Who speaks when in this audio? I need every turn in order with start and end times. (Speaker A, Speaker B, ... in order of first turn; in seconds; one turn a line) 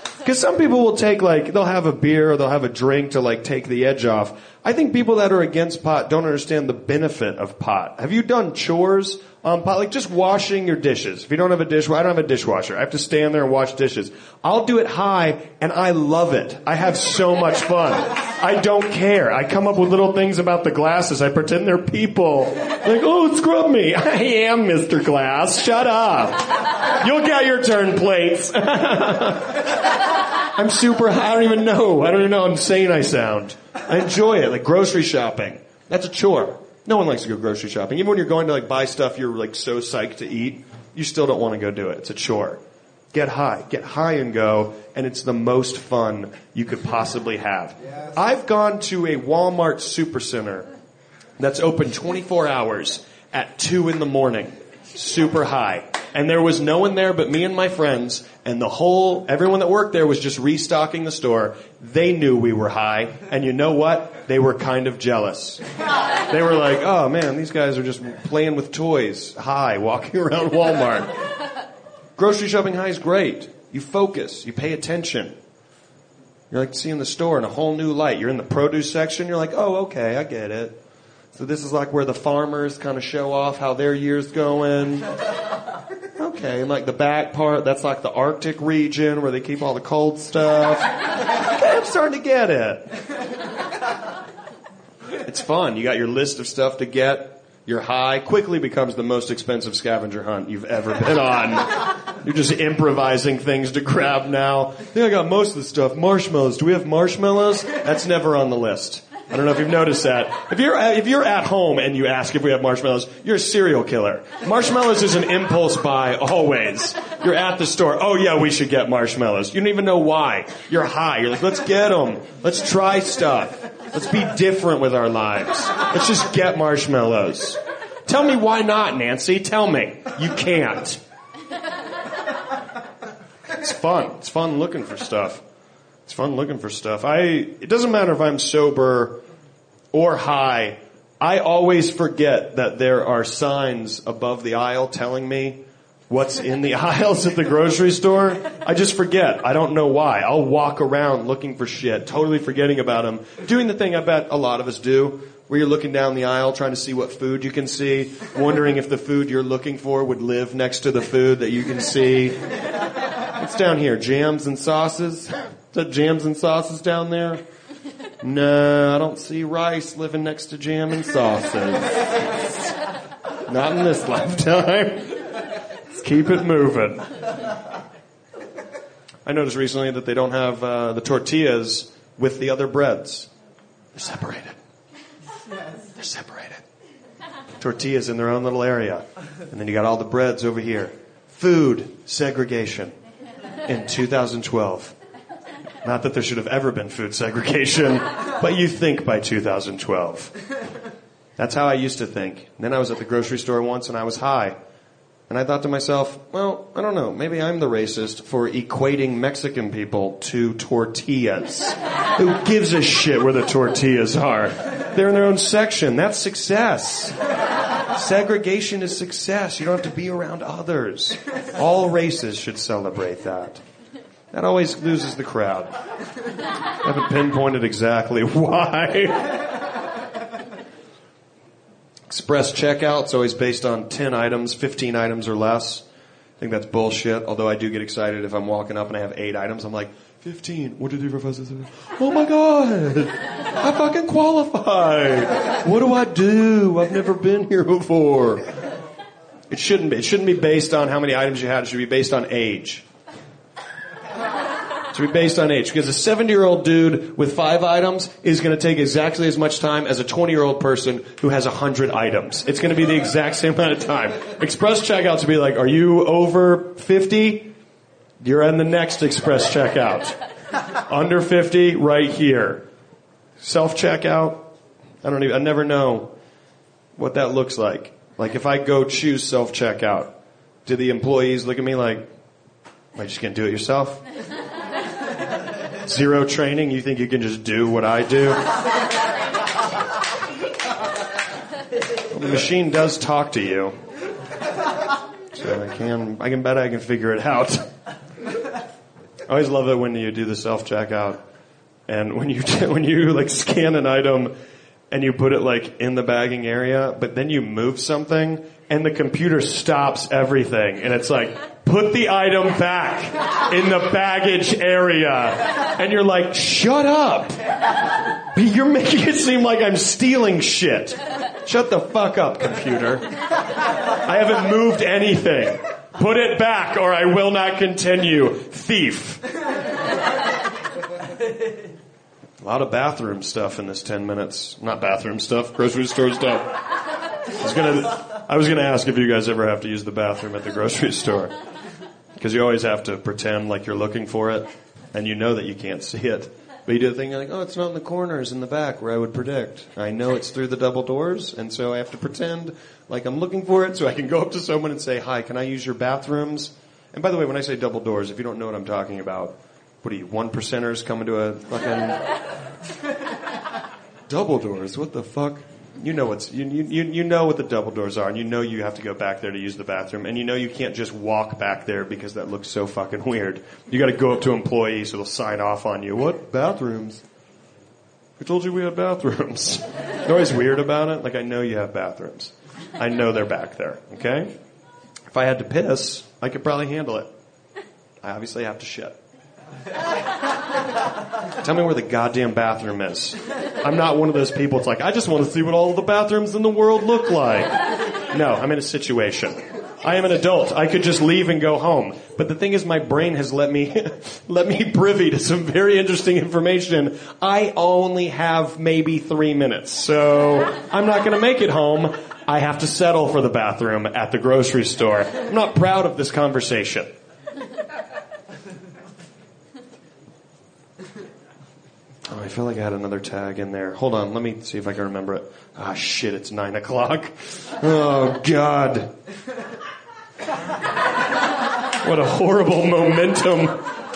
Speaker A: 0.2-29.8
Speaker A: 30.4-42.6
Speaker A: 43.1-50.7
Speaker A: 51.4-65.6
Speaker A: 66.3-71.1
Speaker A: 72.2-75.3
Speaker A: 76.5-80.8
Speaker A: 81.3-85.1
Speaker A: 86.2-93.0
Speaker A: 95.1-131.0
Speaker A: 133.5-135.4
Speaker A: 136.1-139.2
Speaker A: 139.9-162.4
Speaker A: 163.2-167.4
Speaker A: 168.2-172.4
Speaker A: 173.5-175.4
Speaker A: 175.9-177.2
Speaker A: 179.2-183.3
Speaker A: 183.9-184.6
Speaker A: 185.8-186.6
Speaker A: 187.6-193.0
Speaker A: 193.6-194.9
Speaker A: 195.8-200.3
Speaker A: 201.4-204.6
Speaker A: 205.3-217.2
Speaker A: 217.9-223.6
Speaker A: 224.3-225.7
Speaker A: 226.8-229.6
Speaker A: 232.1-235.8
Speaker A: 236.4-248.5
Speaker A: 249.5-252.8
Speaker A: 254.9-267.5
Speaker A: 268.2-270.2
Speaker A: 270.7-272.6
Speaker A: 273.4-274.5
Speaker A: 275.0-276.1
Speaker A: 276.9-282.1
Speaker A: 282.9-284.0
Speaker A: 285.8-288.5
Speaker A: 292.1-293.8
Speaker A: 295.3-297.7
Speaker A: 299.2-301.2
Speaker A: 301.9-304.3
Speaker A: 304.9-317.4
Speaker A: 318.1-323.1
Speaker A: 323.9-329.3
Speaker A: 332.4-336.7
Speaker A: 337.3-341.3
Speaker A: 342.1-362.1
Speaker A: 364.1-377.0
Speaker A: 378.2-384.3
Speaker A: 385.1-387.1
Speaker A: 388.0-389.0
Speaker A: 391.4-416.9
Speaker A: 422.1-428.9
Speaker A: 431.8-433.6